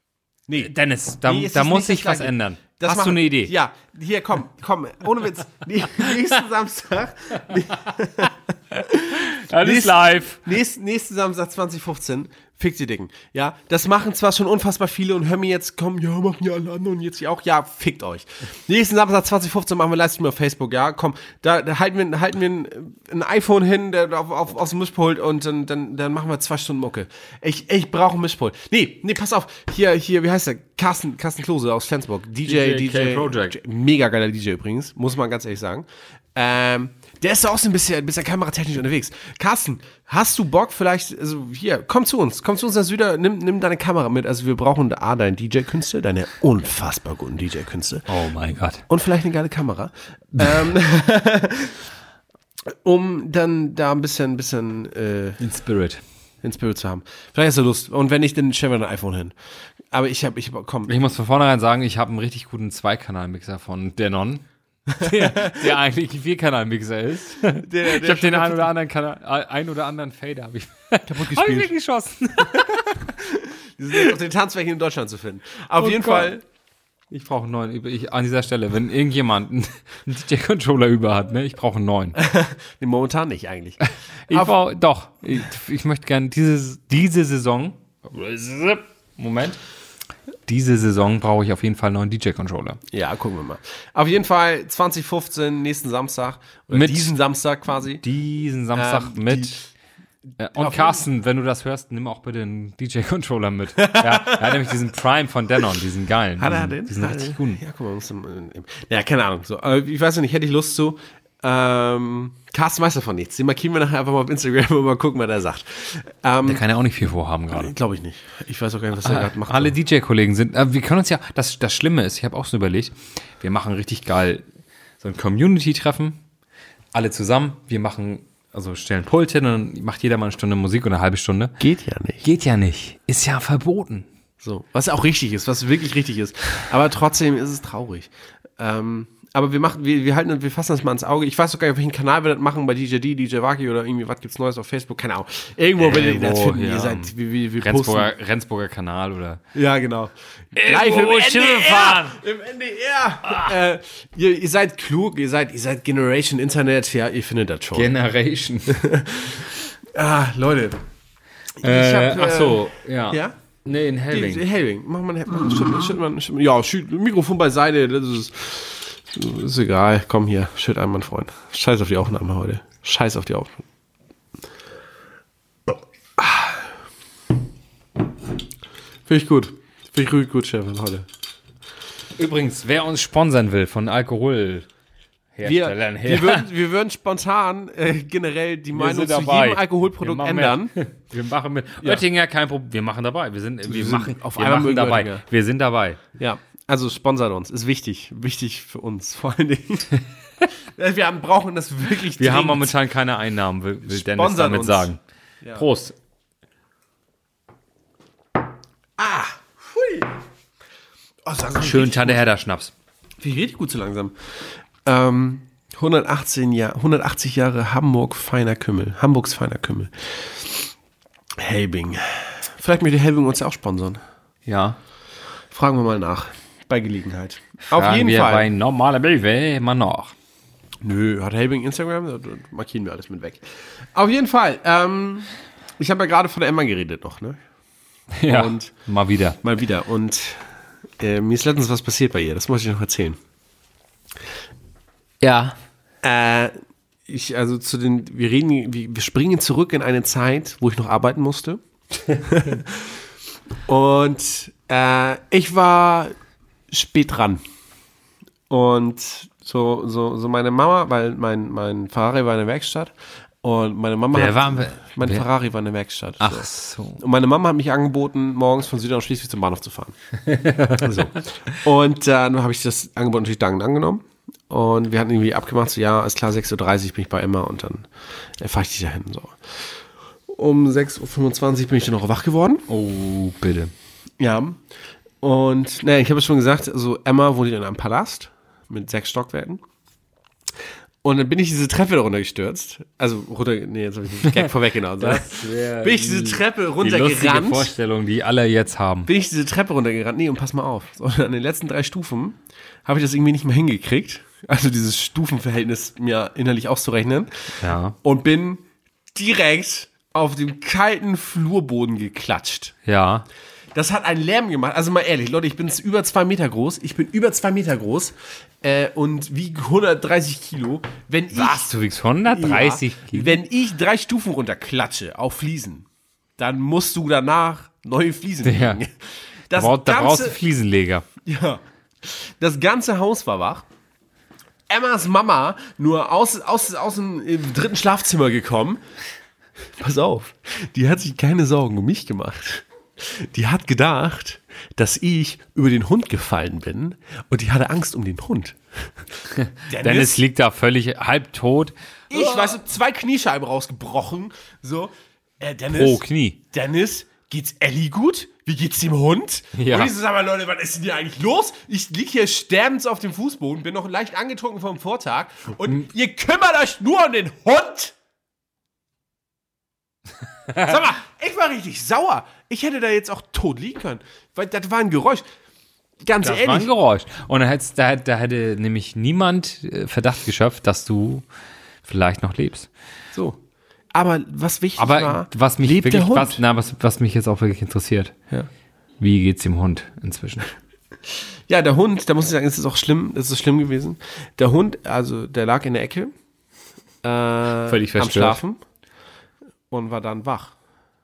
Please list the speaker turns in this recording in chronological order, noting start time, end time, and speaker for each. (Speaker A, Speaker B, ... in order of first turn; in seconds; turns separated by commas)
Speaker A: 0.5-0.7, Speaker B: 0.6-3.5, Speaker A: 1.2-48.1, Speaker B: 9.1-10.4, Speaker B: 32.5-33.6, Speaker B: 48.1-48.8, Speaker A: 48.9-51.9, Speaker A: 52.8-55.4, Speaker B: 55.4-56.0, Speaker A: 56.4-59.3, Speaker A: 59.9-61.0, Speaker B: 60.9-64.5, Speaker A: 64.9-65.7, Speaker B: 65.0-73.1, Speaker A: 67.6-68.7, Speaker A: 71.1-71.7, Speaker A: 72.5-76.4, Speaker B: 75.8-76.3, Speaker B: 77.1-82.2, Speaker A: 82.2-84.5, Speaker B: 84.3-89.6, Speaker B: 90.5-92.8, Speaker A: 92.9-98.0, Speaker B: 96.7-97.2, Speaker B: 98.0-99.6, Speaker A: 98.7-99.7, Speaker B: 100.4-107.6, Speaker A: 100.6-101.0, Speaker A: 103.8-104.8, Speaker A: 106.4-116.6, Speaker B: 116.5-117.7, Speaker A: 117.5-119.8, Speaker B: 119.0-124.5, Speaker B: 125.0-126.2, Speaker B: 126.9-131.6, Speaker A: 131.6-132.2, Speaker B: 132.2-134.1, Speaker A: 134.4-148.1, Speaker B: 145.8-149.4, Speaker A: 149.6-157.9, Speaker B: 150.6-152.2, Speaker B: 153.2-153.5, Speaker B: 157.7-158.8, Speaker A: 158.7-160.8, Speaker A: 161.6-163.4, Speaker B: 161.6-164.4, Speaker A: 164.1-173.6, Speaker A: 176.2-176.6, Speaker A: 179.1-181.1, Speaker B: 182.2-184.7, Speaker B: 185.3-186.5, Speaker A: 185.4-190.8, Speaker B: 188.7-196.0, Speaker A: 193.6-195.2, Speaker A: 196.2-200.0, Speaker A: 200.8-202.8, Speaker B: 202.2-205.0, Speaker A: 203.8-204.9, Speaker B: 205.6-206.0, Speaker A: 209.0-210.1, Speaker A: 211.2-212.2, Speaker B: 211.6-212.7, Speaker A: 213.2-214.2, Speaker A: 214.8-220.7, Speaker A: 221.4-224.0, Speaker B: 224.5-224.8, Speaker A: 225.5-228.5, Speaker B: 227.7-230.1, Speaker A: 230.8-233.4, Speaker A: 233.9-237.4, Speaker B: 238.2-239.4, Speaker A: 238.3-238.7, Speaker A: 239.4-240.5, Speaker A: 241.0-243.2, Speaker B: 245.2-245.6, Speaker A: 246.0-246.5, Speaker A: 247.1-251.6, Speaker A: 252.1-252.9, Speaker A: 253.7-256.1, Speaker A: 256.7-257.4, Speaker A: 258.5-270.0, Speaker B: 264.1-265.3, Speaker B: 266.2-267.0, Speaker B: 270.2-271.1, Speaker A: 270.7-279.4, Speaker A: 280.3-282.7, Speaker B: 282.7-283.7, Speaker A: 284.2-284.6, Speaker A: 285.2-289.6, Speaker A: 291.0-297.7, Speaker B: 294.3-299.1, Speaker A: 299.1-307.5, Speaker B: 307.6-308.0, Speaker A: 308.0-308.6, Speaker A: 309.1-312.8, Speaker B: 312.9-313.3, Speaker A: 313.8-321.7, Speaker B: 321.3-323.4, Speaker A: 322.3-325.9, Speaker A: 326.4-329.0, Speaker B: 328.4-328.8, Speaker A: 329.5-330.4, Speaker B: 329.5-331.1, Speaker A: 331.2-333.6, Speaker A: 334.7-338.8, Speaker A: 339.8-348.6, Speaker B: 349.4-352.6, Speaker A: 349.7-350.2, Speaker A: 352.1-367.9, Speaker B: 355.7-356.4, Speaker B: 359.6-359.9, Speaker A: 370.6-375.2, Speaker A: 376.0-376.7, Speaker B: 376.2-381.3, Speaker B: 381.8-382.7, Speaker A: 383.9-386.4, Speaker B: 384.8-388.1, Speaker B: 389.0-390.5, Speaker A: 391.5-396.1, Speaker A: 397.0-398.6, Speaker B: 397.7-398.4, Speaker A: 399.7-400.6